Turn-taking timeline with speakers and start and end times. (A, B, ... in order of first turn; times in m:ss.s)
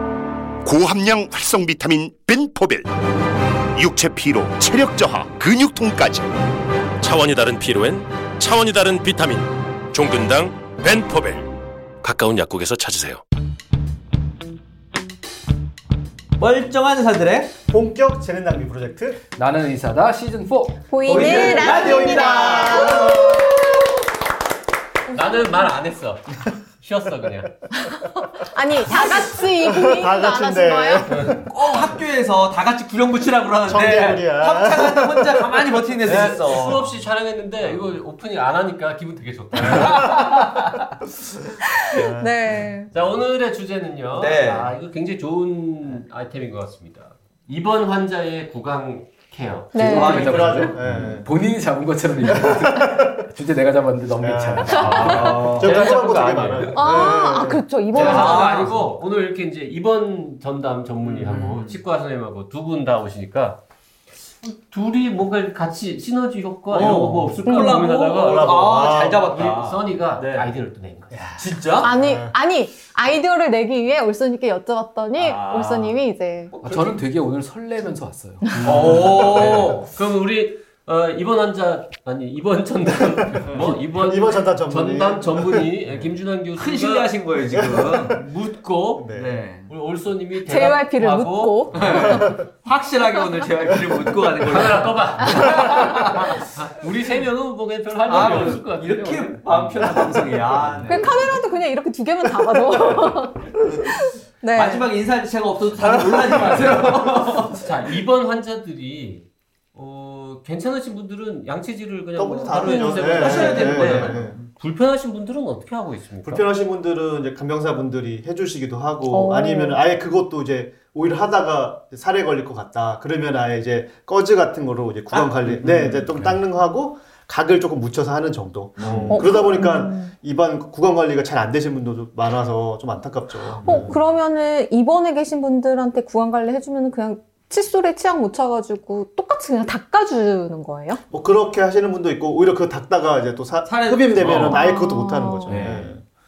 0:00.6-0:02.9 A
0:03.7-0:06.3 A
0:07.0-0:11.5 B
0:12.0-0:13.2 B
0:16.4-0:17.6 C
0:17.7-0:19.2 D
0:19.3-0:21.4 E
0:20.9-0:24.0 F
0:21.0-0:23.3 C
0:21.8-0:23.6 D
0:25.1-0:26.2 G
0:25.1-0:25.7 F
0:26.8-0:27.5 G
0:27.8-0:31.2 F
0:28.9-0:31.5 D
0:31.4-0:36.9 C
0:33.6-0:35.5 D
0:35.8-0:40.3 G
0:39.7-0:40.8 C
0:41.8-0:42.9 F
0:41.9-0:42.3 D
0:42.9-0:50.7 G
0:44.2-0:44.7 C
0:49.7-0:50.2 F
0:49.7-0:55.4 E
0:49.9-0:51.2 C
0:50.0-0:51.3 D
0:52.3-0:53.1 D
0:54.2-0:58.4 D
0:54.7-0:55.1 F
0:54.8-0:55.9 C
0:54.8-0:56.7 G
0:56.7-0:58.7 F
0:57.9-0:58.9 C
0:57.9-1:03.6 G
1:01.0-1:01.8 C
1:04.4-1:11.5 G
1:06.7-1:10.5 C
1:07.4-1:07.8 F
1:08.2-1:09.3 D
1:11.2-1:11.9 C
1:11.8-1:16.6 F
1:11.8-1:12.3 D
1:15.2-1:16.0 C
1:16.5-1:17.0 C
1:16.6-1:18.5 E
1:18.6-1:19.5 D
1:18.6-1:19.8 C
1:18.6-1:27.1 G
1:23.4-1:23.8 C
1:23.9-1:25.7 D
1:26.6-1:28.2 C
1:27.5-1:28.1 D
1:28.0-1:29.1 G
1:29.0-1:29.4 D
1:29.1-1:29.7 C
1:29.7-1:32.1 G
1:30.4-1:32.4 F
1:31.7-1:36.7 C
1:34.4-1:41.0 G
1:38.1-1:41.4 C
1:40.9-1:44.9 F
1:44.6-1:47.6 C
1:46.3-1:46.6 D
1:47.6-1:56.5 G
1:52.2-1:54.4 D
1:52.5-1:53.2 F
1:53.1-1:54.4 C
1:56.2-2:14.0 D
1:59.1-1:59.8 F
2:05.1-2:06.4 C
2:08.8-2:09.3 C
2:09.1-2:10.2 F
2:13.6-2:14.0 C
2:13.6-2:21.0 F
2:21.1-2:26.0 D
2:23.6-2:24.7 C
2:24.4-2:25.6 F
2:25.5-2:25.9 C
2:25.5-2:25.8 E